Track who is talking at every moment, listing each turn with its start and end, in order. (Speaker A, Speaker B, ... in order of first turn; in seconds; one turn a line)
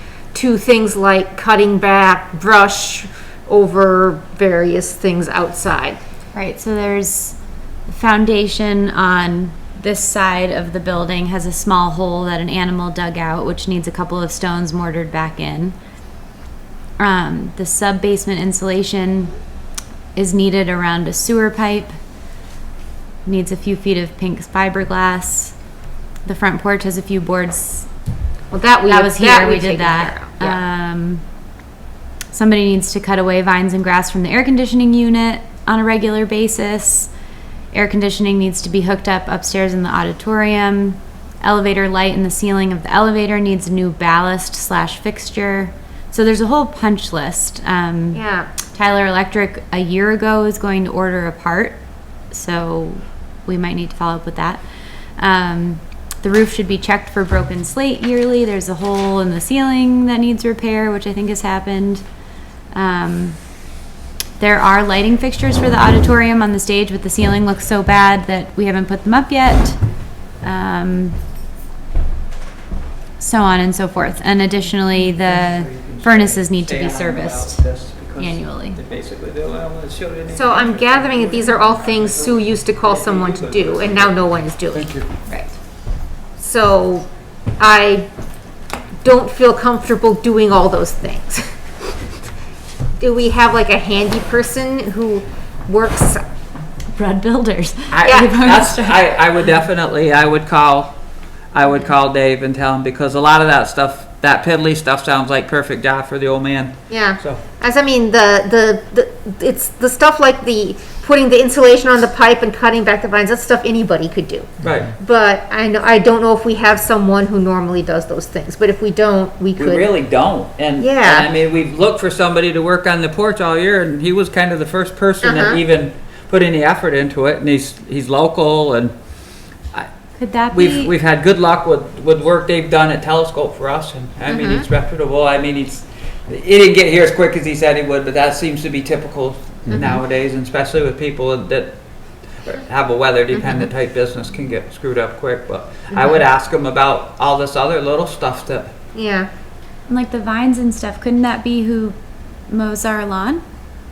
Speaker A: 0.3-6.0
Speaker B: 6.3-15.8
Speaker B: 17.0-19.3
Speaker B: 20.1-21.9
Speaker B: 23.2-25.5
Speaker B: 26.2-27.9
Speaker A: 28.5-30.6
Speaker B: 28.9-31.2
Speaker B: 32.3-37.1
Speaker B: 37.7-48.2
Speaker A: 48.1-48.5
Speaker B: 48.7-51.8
Speaker B: 52.3-54.6
Speaker B: 55.2-62.0
Speaker B: 62.7-63.4
Speaker B: 64.4-69.8
Speaker B: 70.4-71.2
Speaker B: 73.2-77.6
Speaker C: 74.9-84.3
Speaker B: 78.2-78.8
Speaker A: 80.3-84.9
Speaker A: 86.4-87.1
Speaker A: 87.6-88.1
Speaker A: 89.0-91.5
Speaker A: 93.0-96.2
Speaker B: 96.9-99.1
Speaker C: 97.9-100.9
Speaker A: 98.0-98.3
Speaker C: 101.5-107.4
Speaker A: 106.9-119.9
Speaker C: 114.6-114.9
Speaker C: 119.6-128.9
Speaker A: 120.8-121.3
Speaker A: 125.2-125.6
Speaker B: 130.2-130.9
Speaker C: 130.5-141.8
Speaker A: 134.3-134.7
Speaker A: 139.7-140.0
Speaker C: 142.4-148.7
Speaker A: 143.3-143.7
Speaker A: 145.9-146.2
Speaker A: 148.9-149.3
Speaker B: 149.9-151.9
Speaker B: 152.5-153.4